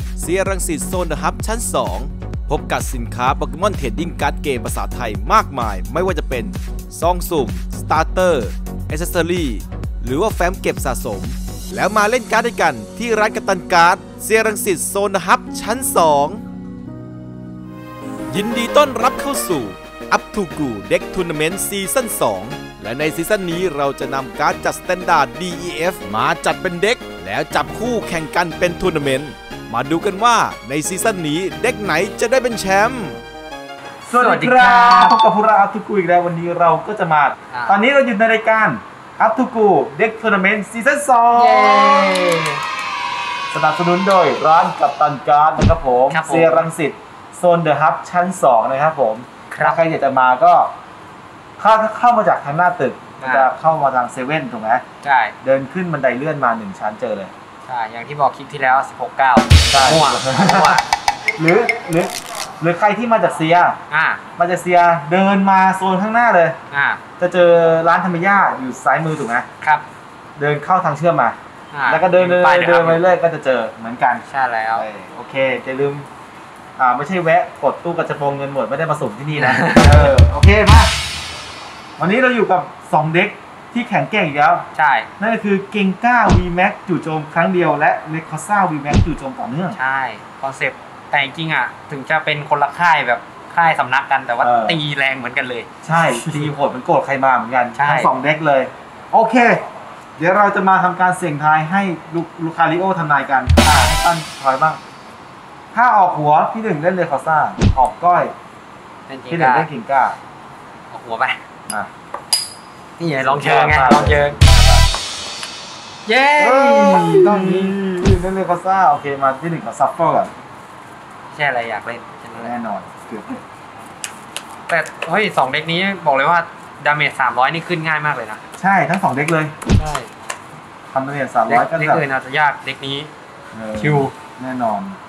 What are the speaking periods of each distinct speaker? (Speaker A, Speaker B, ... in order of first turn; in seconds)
Speaker A: 0.2-16.4, 18.3-33.2
Speaker B: 34.0-42.3, 43.5-50.7, 51.6-54.8, 55.4-57.3, 59.7-60.8, 61.4-63.8, 64.4-66.6, 67.2-69.5, 70.3-74.2, 74.8-76.1, 76.8-81.0, 82.0-89.8, 94.4-94.8, 95.8-99.6, 100.2-104.8, 105.7-108.3, 109.3-110.2, 113.2-114.9, 116.4-120.3, 122.4-123.4, 128.6-129.6, 130.9-132.0, 133.5-135.0
Speaker C: 34.1-35.2, 37.5-37.8, 41.4-42.6, 46.1-46.7, 49.5-49.8, 53.2-53.5, 55.0-55.4, 57.6-60.9, 63.9-64.2, 66.7-67.0, 71.7-73.0, 74.3-74.9, 79.3-80.1, 84.8-85.1, 89.7-96.5, 97.8-98.1, 103.6-104.0, 109.1-109.7, 110.9-111.4, 113.0-114.4, 116.1-117.8, 121.3-122.5, 124.7-128.4, 129.8-130.1, 131.5-133.1, 133.8-134.1